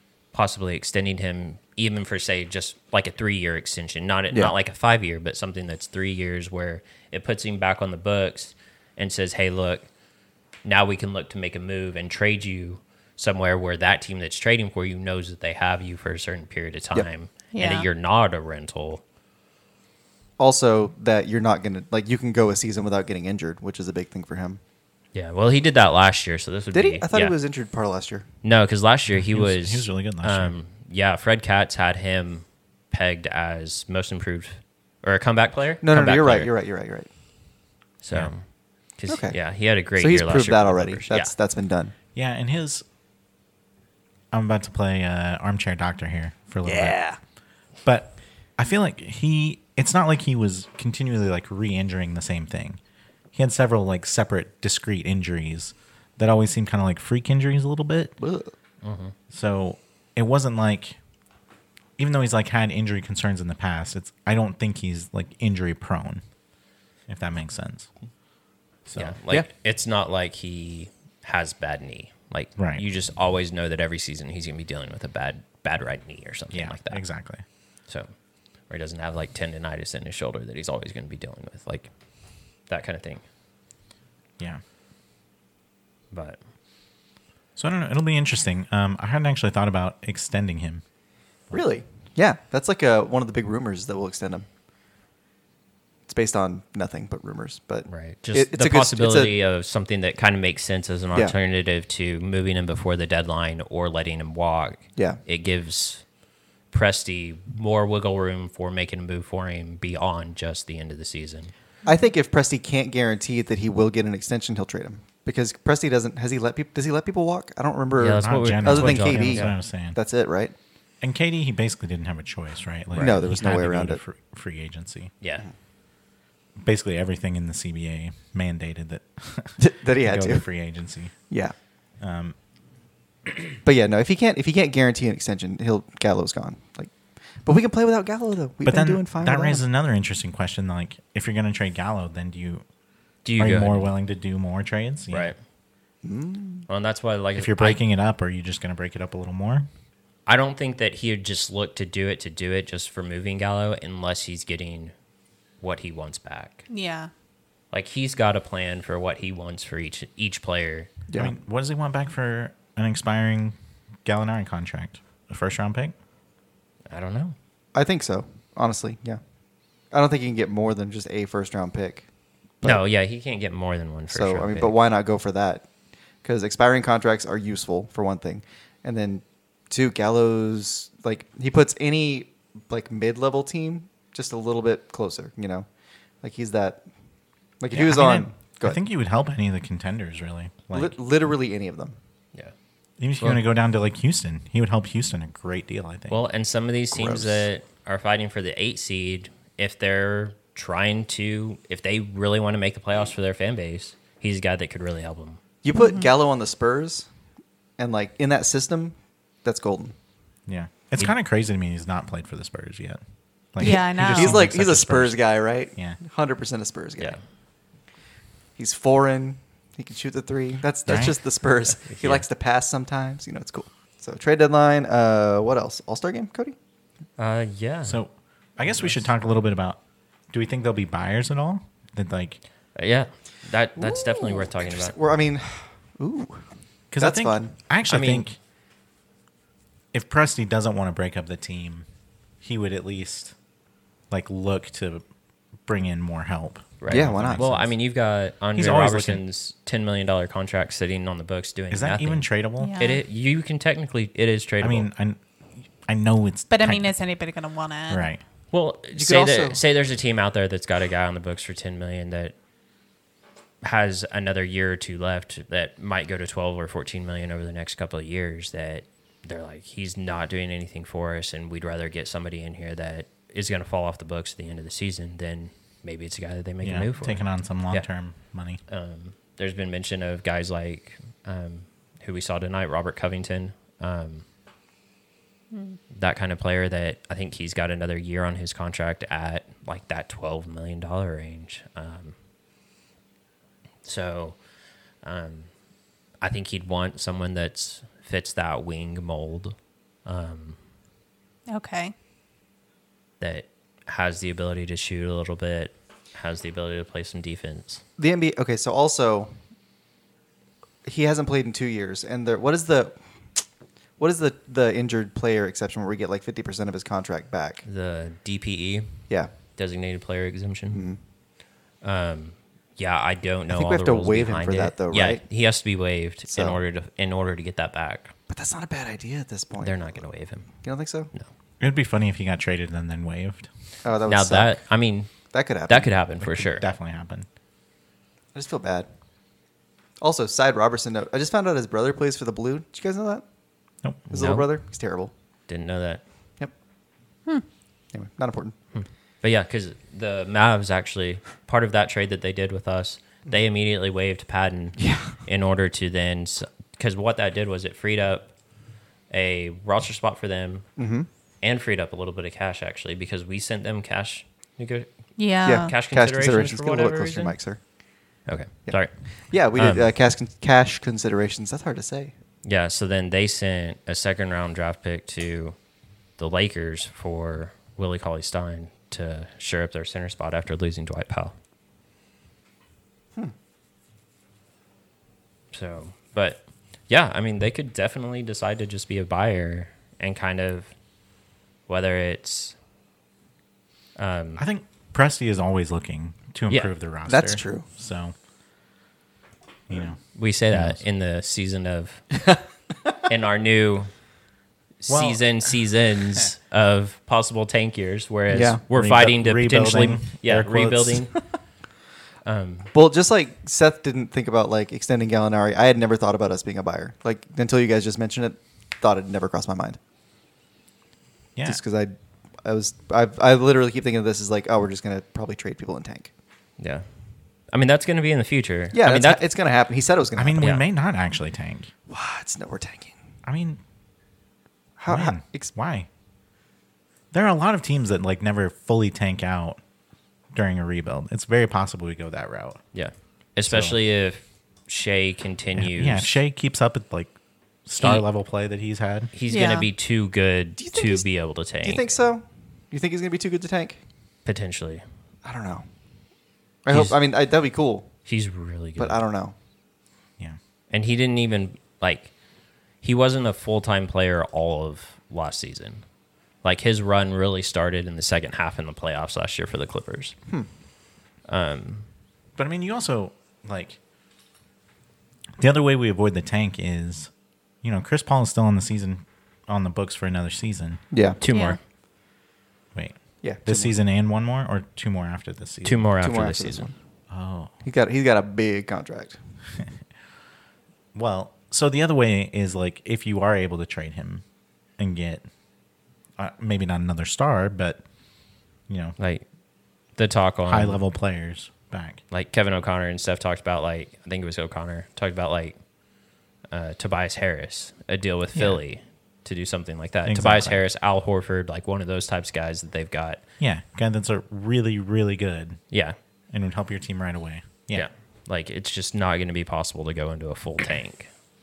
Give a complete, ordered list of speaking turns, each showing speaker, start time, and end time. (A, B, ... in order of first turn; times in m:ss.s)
0:00.3-0:09.9 A
0:10.6-0:19.0 A
0:17.5-0:17.9 B
0:20.4-0:24.6 C
0:25.1-0:27.3 A
0:26.7-0:28.2 C
0:28.4-0:36.5 A
0:29.3-0:30.5 D
0:35.8-0:37.1 C
0:38.0-0:38.4 A
0:39.0-0:41.3 A
0:39.1-0:39.4 C
0:40.0-0:41.9 C
0:42.1-0:42.8 D
0:44.3-0:47.0 D
0:46.6-0:47.2 C
0:47.8-0:52.8 D
0:53.3-0:58.1 D
0:58.2-0:58.5 C
0:58.8-0:59.1 A
0:59.3-1:01.0 D
1:02.0-1:06.2 D
1:07.1-1:07.9 D
1:08.9-1:09.2 D
1:09.0-1:17.1 A
1:12.6-1:12.8 D
1:16.5-1:17.4 D
1:18.7-1:21.9 A
1:22.7-1:23.2 A
1:26.1-1:26.4 A
1:27.6-1:30.8 D
1:31.5-1:34.5 C
1:36.1-1:39.3 C
1:37.9-1:46.0 A
1:46.7-1:51.5 A
1:51.8-2:00.5 C
1:58.0-1:59.5 A
1:58.2-2:00.0 D
2:01.0-2:05.1 D
2:02.9-2:04.0 C
2:05.2-2:05.4 A
2:06.6-2:11.1 D
2:09.6-2:10.4 C
2:12.0-2:12.4 D
2:13.6-2:16.9 C
2:17.4-2:19.6 C
2:18.6-2:22.6 D
2:23.2-2:23.9 A
2:23.4-2:25.3 D
2:25.1-2:25.4 A
2:26.0-2:26.6 C
2:26.7-2:27.8 A
2:27.3-2:29.7 D
2:30.3-2:34.9 A
2:35.6-2:36.6 A
2:36.7-2:37.1 B
2:37.7-2:40.9 A
2:41.1-2:45.9 D
2:46.9-2:47.3 A
2:47.7-2:49.2 C
2:49.9-2:52.0 C
2:52.6-2:54.7 A
2:54.1-2:55.7 C
2:56.2-3:05.7 C
3:06.2-3:06.8 C
3:07.6-3:08.8 C
3:07.7-3:11.0 D
3:10.7-3:11.9 C
3:13.0-3:16.2 D
3:16.1-3:25.4 A
3:16.9-3:17.4 C
3:25.6-3:27.1 C
3:25.7-3:26.1 B
3:27.8-3:29.9 C
3:30.5-3:33.0 D
3:33.5-3:35.2 D
3:33.6-3:37.2 C
3:33.6-3:34.4 B
3:38.6-3:46.6 C
3:40.8-3:41.2 D
3:41.8-3:42.2 A
3:47.2-3:48.0 A
3:47.8-3:49.8 D
3:48.7-3:49.0 A
3:50.3-3:52.4 D
3:52.7-3:54.9 A
3:53.8-3:56.4 C
3:56.9-3:58.4 D
3:57.0-3:57.5 C
3:57.9-3:58.2 A
3:59.9-4:01.8 D
4:02.4-4:03.3 D
4:04.1-4:05.0 D
4:05.6-4:07.6 D
4:06.8-4:12.3 A
4:06.9-4:07.6 C
4:08.6-4:09.2 D
4:11.7-4:12.8 D
4:12.6-4:13.0 B
4:12.8-4:14.9 A
4:14.6-4:15.2 D
4:15.8-4:16.9 D
4:16.5-4:18.1 B
4:17.9-4:18.2 D
4:18.5-4:22.3 A
4:19.0-4:19.6 C
4:23.6-4:37.8 A
4:36.6-4:38.6 D
4:38.7-4:44.2 A
4:45.5-4:45.8 B
4:45.9-4:52.1 A
4:53.8-4:54.4 A
4:55.0-4:55.5 A
4:56.2-5:00.6 A
5:01.5-5:01.9 B
5:03.2-5:07.8 A
5:08.0-5:09.3 C
5:10.8-5:13.0 C
5:14.0-5:17.6 C
5:17.6-5:19.0 A
5:19.6-5:20.8 A
5:20.7-5:21.0 C
5:21.8-5:28.1 A
5:23.5-5:25.2 C
5:26.3-5:26.6 C
5:28.3-5:30.0 C
5:29.6-5:30.5 A
5:30.5-5:31.1 C
5:31.6-5:33.5 D
5:33.8-5:34.6 C
5:34.0-5:36.6 A
5:35.3-5:35.9 C
5:36.2-5:37.2 D
5:38.3-5:38.9 C
5:40.0-5:43.2 C
5:44.1-5:44.5 A
5:44.1-5:45.1 C
5:45.5-5:46.0 A
5:47.9-5:48.5 C
5:48.7-5:58.3 A
5:54.8-5:55.1 C
5:59.1-6:00.7 A
6:00.8-6:01.1 C
6:01.4-6:04.9 A
6:05.2-6:05.7 B
6:05.4-6:07.4 A
6:05.4-6:07.6 C
6:08.2-6:09.9 A
6:08.6-6:12.1 C
6:12.4-6:15.6 A
6:16.2-6:21.3 A
6:25.5-6:30.7 A
6:31.7-6:32.6 A
6:34.0-6:34.4 A
6:34.4-6:38.1 D
6:37.1-6:37.6 C
6:39.7-6:40.0 D
6:40.1-6:42.1 A
6:40.5-6:40.8 D
6:43.1-6:43.9 A
6:44.8-6:51.1 A
6:44.9-6:45.2 D
6:48.3-6:48.6 C
6:48.7-6:51.1 D
6:52.2-6:52.7 A
6:52.7-6:59.8 C
7:01.4-7:01.6 D
7:01.4-7:06.1 C
7:06.6-7:06.8 A
7:07.5-7:09.2 A
7:08.7-7:10.5 C
7:10.2-7:11.7 D
7:11.9-7:12.9 C
7:13.2-7:13.6 D
7:14.8-7:15.5 C
7:14.9-7:15.9 D
7:17.1-7:19.6 D
7:20.3-7:22.6 D
7:22.7-7:26.1 A
7:23.4-7:23.8 D
7:25.6-7:27.1 D
7:27.6-7:29.1 D
7:27.8-7:28.0 A
7:29.1-7:31.9 A
7:29.3-7:29.7 B
7:30.6-7:31.0 C
7:31.6-7:33.8 C
7:34.2-7:34.8 A
7:35.2-7:35.6 C
7:36.6-7:37.9 C
7:36.7-7:37.0 A
7:38.1-7:39.0 A
7:38.8-7:39.3 C
7:40.7-7:42.1 A
7:42.8-7:45.8 A
7:46.4-7:50.1 A
7:51.3-7:51.8 A
7:52.4-7:53.8 D
7:55.4-7:57.1 D
7:57.6-8:00.8 D
8:00.9-8:01.2 C
8:01.2-8:01.6 A
8:01.3-8:01.6 B
8:02.7-8:05.8 D
8:03.2-8:03.7 C
8:05.6-8:06.7 A
8:06.0-8:06.7 C
8:07.1-8:07.5 D
8:07.6-8:09.2 C
8:10.9-8:14.2 D
8:14.8-8:15.2 D
8:16.2-8:17.8 D
8:18.7-8:18.9 D
8:19.0-8:19.2 A
8:19.9-8:20.8 A
8:20.4-8:22.0 D
8:22.1-8:25.6 A
8:26.5-8:33.2 A
8:28.3-8:28.6 D
8:30.0-8:30.6 D
8:33.4-8:35.6 D
8:35.7-8:36.0 A
8:36.3-8:37.8 D
8:37.7-8:41.1 A